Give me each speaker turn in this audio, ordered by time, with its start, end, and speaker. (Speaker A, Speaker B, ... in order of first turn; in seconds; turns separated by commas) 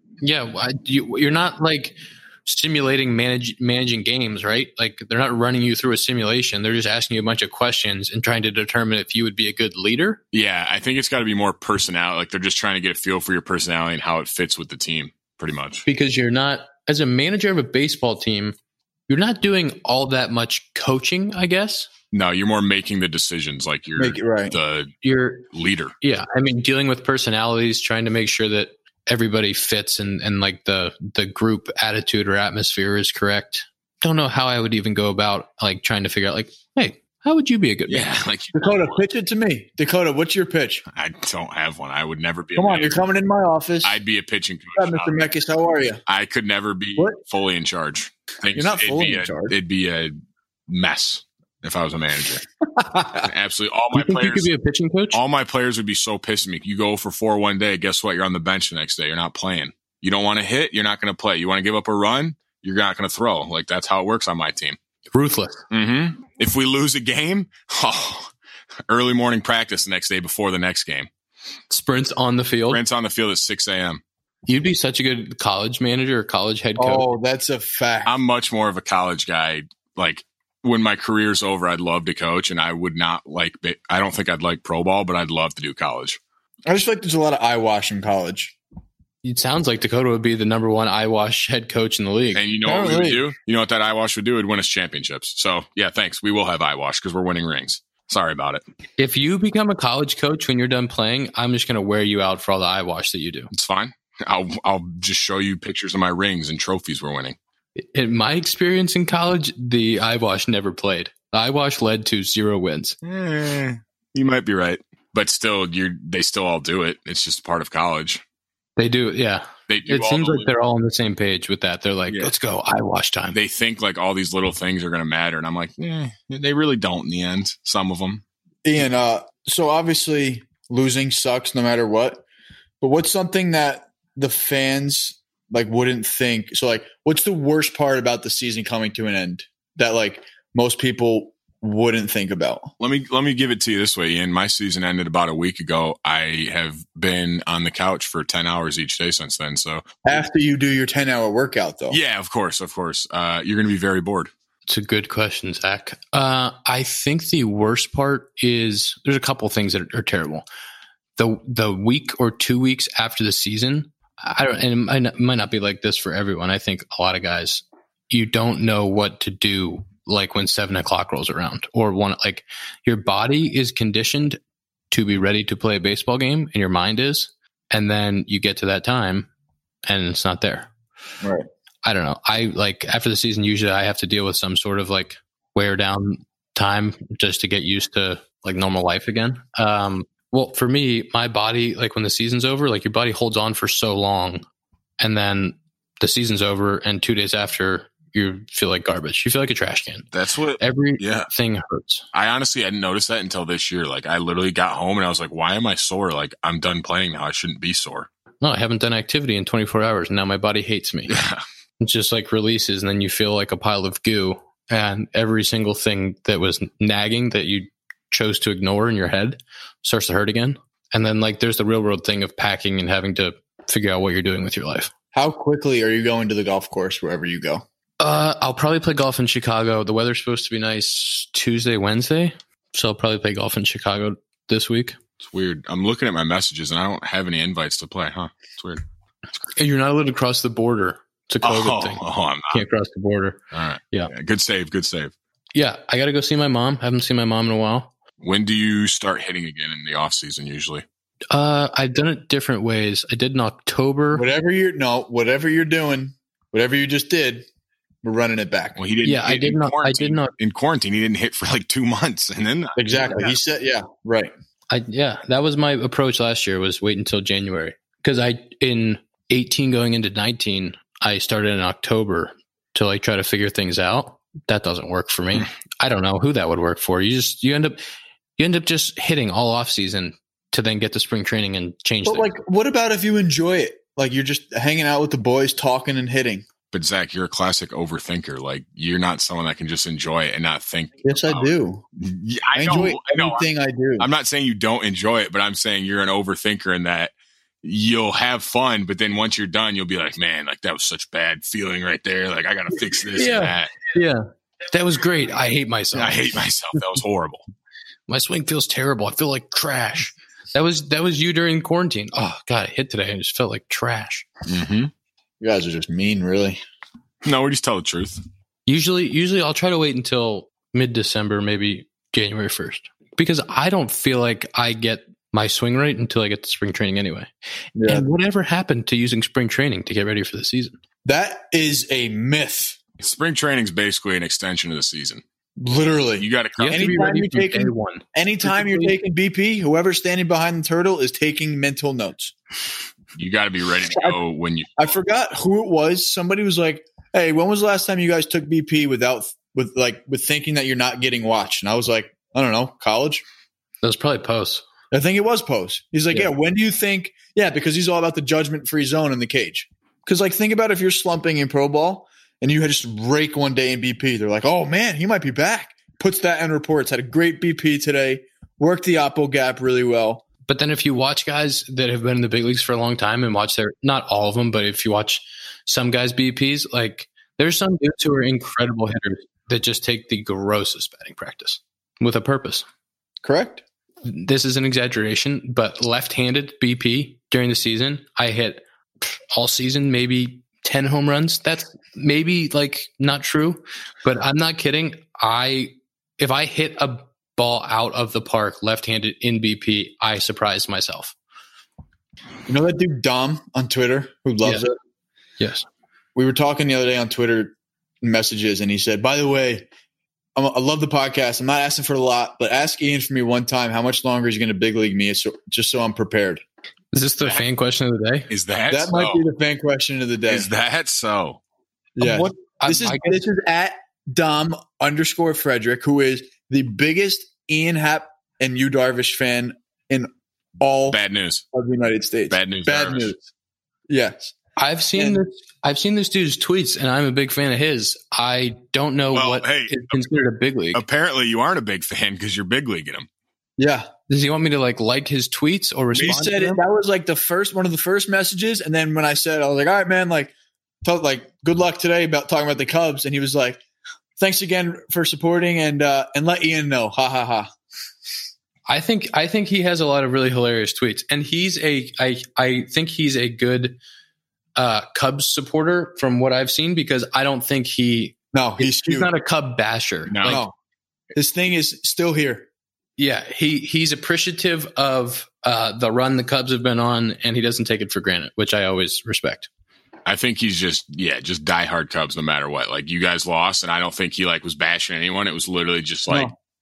Speaker A: 0.2-10.2, Speaker B: 10.3-15.8, Speaker A: 15.8-18.6, Speaker A: 19.1-21.9, Speaker B: 22.1-24.9, Speaker C: 23.9-24.6, Speaker A: 25.0-25.5, Speaker B: 25.5-25.9, Speaker A: 26.0-38.1, Speaker B: 37.9-39.0, Speaker C: 38.5-40.8, Speaker B: 40.9-43.0, Speaker C: 42.5-44.0, Speaker B: 43.8-45.2, Speaker C: 44.8-46.0, Speaker B: 46.1-50.1, Speaker C: 48.5-49.5, Speaker B: 50.7-52.4, Speaker C: 52.8-53.3, Speaker B: 53.2-54.5, Speaker A: 53.9-55.2, Speaker B: 55.1-64.8, Speaker A: 65.1-65.6, Speaker B: 65.7-68.3, Speaker B: 68.9-71.1, Speaker A: 71.7-72.8, Speaker B: 72.7-74.0, Speaker A: 74.5-77.1, Speaker C: 76.8-78.1, Speaker B: 78.0-86.2, Speaker C: 86.7-88.5, Speaker A: 89.2-92.4, Speaker B: 92.3-98.6, Speaker C: 92.6-93.2, Speaker A: 99.0-103.5, Speaker B: 103.5-107.4, Speaker A: 107.8-113.0, Speaker B: 113.0-118.2, Speaker A: 118.8-123.4, Speaker B: 119.7-120.5, Speaker B: 123.3-128.2, Speaker C: 128.6-132.2, Speaker C: 132.8-142.7, Speaker B: 142.8-150.0, Speaker C: 150.0-152.0, Speaker B: 151.9-154.3, Speaker A: 154.7-160.4, Speaker A: 161.2-174.4, Speaker A: 174.9-179.3, Speaker A: 179.8-180.7, Speaker A: 181.8-194.4, Speaker A: 195.0-200.1, Speaker B: 200.1-201.3, Speaker A: 200.6-202.0, Speaker B: 202.1-208.1, Speaker A: 208.4-211.1, Speaker B: 211.1-211.4, Speaker A: 211.8-224.9, Speaker C: 225.1-227.6, Speaker A: 228.0-235.0, Speaker B: 235.2-238.8, Speaker A: 239.5-243.4, Speaker B: 241.4-242.6, Speaker B: 243.5-245.1, Speaker A: 245.5-247.9, Speaker B: 248.2-250.8, Speaker A: 251.3-254.3, Speaker C: 254.1-257.5, Speaker C: 258.0-258.8, Speaker B: 258.8-263.3, Speaker A: 259.0-260.3, Speaker C: 262.8-264.3, Speaker A: 264.7-277.8, Speaker A: 278.4-282.3, Speaker C: 282.0-286.4, Speaker B: 286.7-293.5, Speaker C: 291.0-291.8, Speaker C: 292.5-294.1, Speaker B: 294.0-303.8, Speaker A: 303.1-306.3, Speaker B: 305.9-307.4, Speaker A: 308.1-314.3, Speaker B: 314.5-314.9, Speaker C: 315.4-316.6, Speaker B: 317.2-318.2, Speaker A: 318.7-327.3, Speaker C: 327.8-328.0, Speaker A: 327.8-330.8, Speaker C: 331.0-332.8, Speaker B: 333.0-335.2, Speaker C: 335.6-342.3, Speaker B: 336.2-336.9, Speaker A: 336.6-338.9, Speaker B: 343.1-344.9, Speaker C: 343.8-344.1, Speaker C: 344.8-353.2, Speaker A: 353.8-354.6, Speaker C: 354.9-370.2, Speaker A: 370.5-382.6, Speaker C: 383.2-383.6, Speaker A: 384.0-401.1, Speaker C: 402.5-404.7, Speaker A: 405.4-405.7, Speaker C: 406.1-409.7, Speaker C: 410.4-416.4, Speaker A: 416.9-418.3, Speaker B: 418.3-419.2, Speaker C: 418.7-420.5, Speaker B: 420.3-421.4, Speaker C: 422.0-430.1, Speaker A: 422.0-423.2, Speaker C: 430.6-431.0, Speaker B: 430.9-431.4, Speaker C: 431.5-433.2, Speaker B: 432.3-433.2, Speaker C: 433.9-434.3, Speaker A: 434.6-440.8, Speaker B: 439.1-440.1, Speaker B: 440.7-443.1, Speaker C: 443.6-443.9, Speaker A: 444.1-446.6, Speaker C: 446.0-453.6, Speaker C: 454.2-457.5, Speaker A: 458.7-463.8, Speaker A: 464.6-470.4, Speaker C: 468.3-469.1, Speaker B: 470.1-470.4, Speaker C: 470.2-470.5, Speaker C: 471.1-472.5, Speaker A: 473.0-479.5, Speaker B: 480.1-486.3, Speaker C: 486.1-486.3